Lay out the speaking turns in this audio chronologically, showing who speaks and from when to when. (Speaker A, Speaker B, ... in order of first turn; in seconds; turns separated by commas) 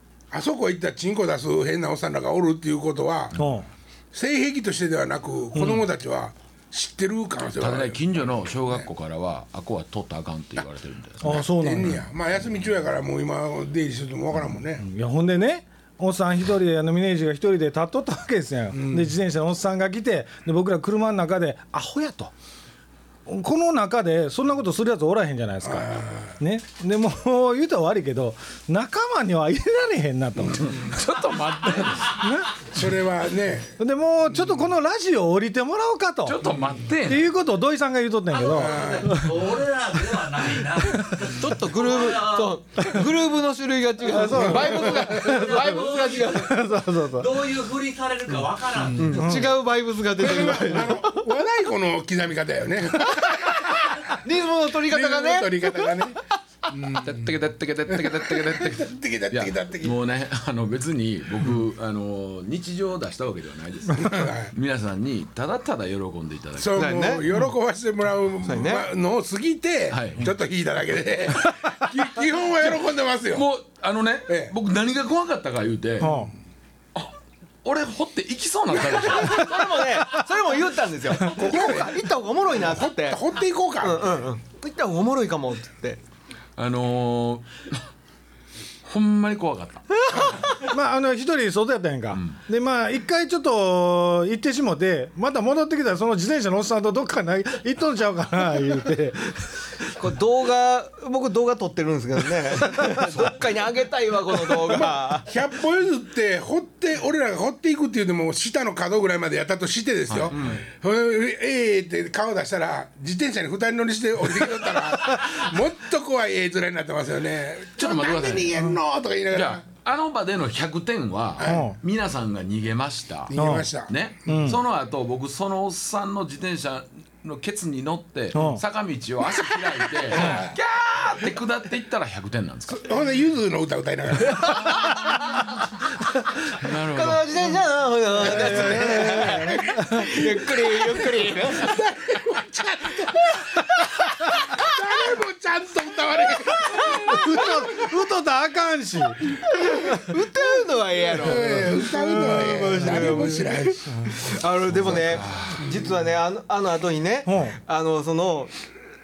Speaker A: 0.3-3.3, Speaker B: 3.3-3.7, Speaker A: 4.1-8.8, Speaker B: 5.5-5.9, Speaker C: 7.6-11.9, Speaker B: 11.2-12.0, Speaker A: 11.2-14.8, Speaker B: 14.8-22.3, Speaker A: 18.7-19.1, Speaker B: 23.3-31.0, Speaker A: 25.6-26.3, Speaker C: 30.6-32.2, Speaker D: 31.8-32.3, Speaker B: 32.1-32.7, Speaker A: 32.7-33.8, Speaker B: 33.8-36.5, Speaker C: 36.2-37.2, Speaker B: 37.0-39.6, Speaker D: 38.4-42.6, Speaker A: 38.5-39.2, Speaker B: 40.7-41.3, Speaker E: 41.2-46.5, Speaker B: 44.0-47.6, Speaker C: 44.3-46.3, Speaker D: 44.8-46.6, Speaker D: 47.1-49.2, Speaker E: 48.9-51.2, Speaker B: 49.0-49.5, Speaker A: 50.1-54.2, Speaker E: 54.1-56.0, Speaker A: 54.8-56.2, Speaker A: 56.7-57.3, Speaker C: 57.0-67.0, Speaker A: 57.9-60.0, Speaker A: 64.0-64.5, Speaker A: 66.6-73.5, Speaker E: 66.7-67.2, Speaker E: 68.4-68.9, Speaker C: 69.9-70.3, Speaker C: 73.3-76.1, Speaker A: 74.3-74.5, Speaker B: 76.0-76.3, Speaker C: 77.6-79.9, Speaker E: 78.8-83.2, Speaker A: 81.3-84.2, Speaker E: 83.8-86.0, Speaker C: 86.6-87.8, Speaker C: 88.8-90.3, Speaker E: 90.1-90.4, Speaker B: 90.6-99.8, Speaker C: 92.1-92.4, Speaker E: 99.8-105.3, Speaker B: 102.8-103.2, Speaker A: 104.6-119.6, Speaker C: 110.1-110.6, Speaker C: 117.8-118.6, Speaker C: 119.3-123.3, Speaker A: 121.4-121.7, Speaker B: 121.4-121.8, Speaker A: 123.3-124.4, Speaker B: 123.3-123.7, Speaker C: 123.9-133.0, Speaker B: 124.2-124.6, Speaker B: 128.3-128.6, Speaker A: 130.1-130.6, Speaker B: 130.1-130.4, Speaker A: 132.7-134.9, Speaker E: 134.4-135.1, Speaker C: 136.5-137.6, Speaker E: 136.6-141.8, Speaker B: 138.2-140.1, Speaker A: 138.9-147.8, Speaker E: 144.0-144.8, Speaker E: 146.5-147.5, Speaker B: 146.7-149.3, Speaker E: 149.4-158.5, Speaker A: 151.0-154.0, Speaker B: 151.3-153.3, Speaker C: 154.7-155.6, Speaker B: 157.2-157.6